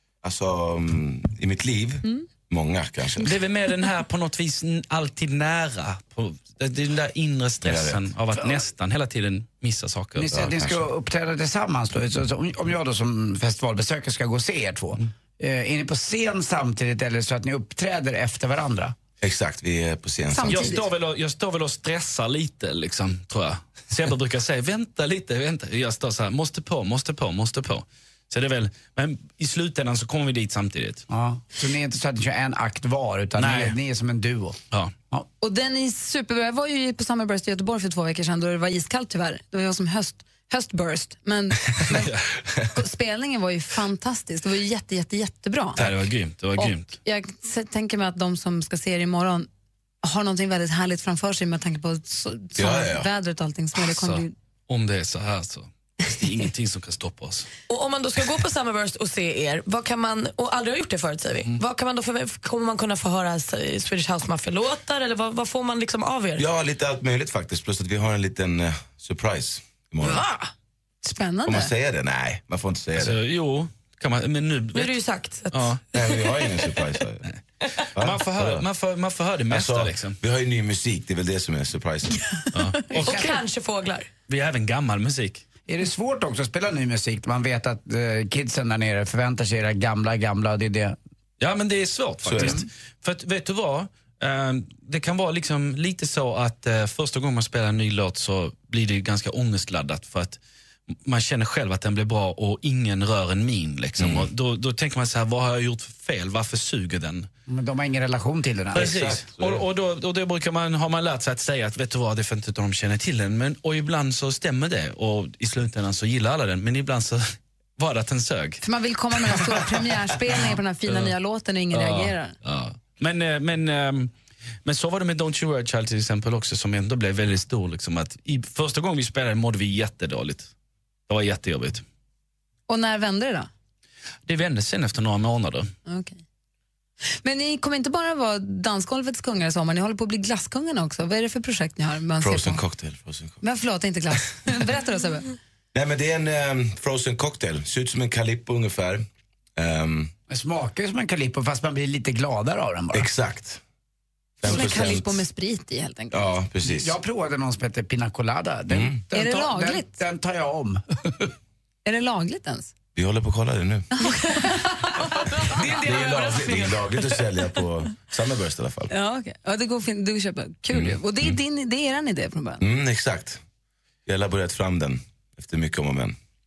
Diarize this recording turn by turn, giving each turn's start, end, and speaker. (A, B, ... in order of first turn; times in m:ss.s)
0:00.2-0:03.4 A
0:03.2-0:10.3 B
0:07.6-0:08.0 A
0:08.4-0:08.6 C
0:10.2-0:19.0 C
0:10.3-0:10.8 A
0:19.2-0:20.8 A
0:20.3-0:20.7 D
0:20.5-0:31.0 B
0:31.1-0:34.6 C
0:33.4-0:33.8 B
0:35.4-0:42.0 D
0:41.9-0:42.3 B
0:42.8-0:45.8 D
0:45.8-0:47.0 B
0:46.6-0:49.5 D
0:50.0-0:54.3 D
0:52.6-0:53.1 A
0:53.9-0:57.5 B
0:57.7-1:06.4 E
1:06.4-1:10.3 A
1:10.0-1:10.5 E
1:11.0-1:11.7 D
1:11.5-1:13.2 A
1:13.0-1:15.8 B
1:14.7-1:15.8 E
1:15.9-1:17.2 A
1:18.0-1:18.6 A
1:18.0-1:20.2 B
1:19.5-1:22.4 A
1:22.5-1:23.4 B
1:23.0-1:24.1 E
1:23.0-1:23.4 C
1:24.3-1:25.5 B
1:25.7-1:31.0 C
1:31.4-1:40.4 B
1:32.2-1:32.6 A
1:32.4-1:32.6 C
1:41.0-1:47.3 B
1:44.0-1:44.3 A
1:47.5-1:48.9 C
1:48.7-1:58.6 B
1:48.7-1:49.6 A
1:58.6-2:02.4 D
1:59.3-2:01.1 B
2:01.7-2:04.1 B
2:04.6-2:10.5 B
2:11.1-2:11.8 B
2:12.7-2:13.5 D
2:14.3-2:15.7 B
2:15.9-2:16.2 D
2:17.2-2:22.6 D
2:22.2-2:23.4 A
2:23.4-2:25.3 D
2:25.7-2:29.0 A
2:29.6-2:30.1 A
2:30.3-2:33.1 C
2:32.9-2:33.6 A
2:34.4-2:35.2 A
2:34.4-2:36.3 D
2:34.5-2:35.0 C
2:36.1-2:37.0 A
2:36.7-2:41.3 C
2:38.7-2:39.0 A
2:39.1-2:39.9 D
2:41.8-2:42.7 D
2:43.0-2:43.9 A
2:44.0-2:45.3 D
2:45.1-2:46.8 E
2:45.3-2:48.9 A
2:48.9-2:52.6 D
2:50.7-2:51.4 A
2:52.6-2:53.4 A
2:54.1-2:56.2 A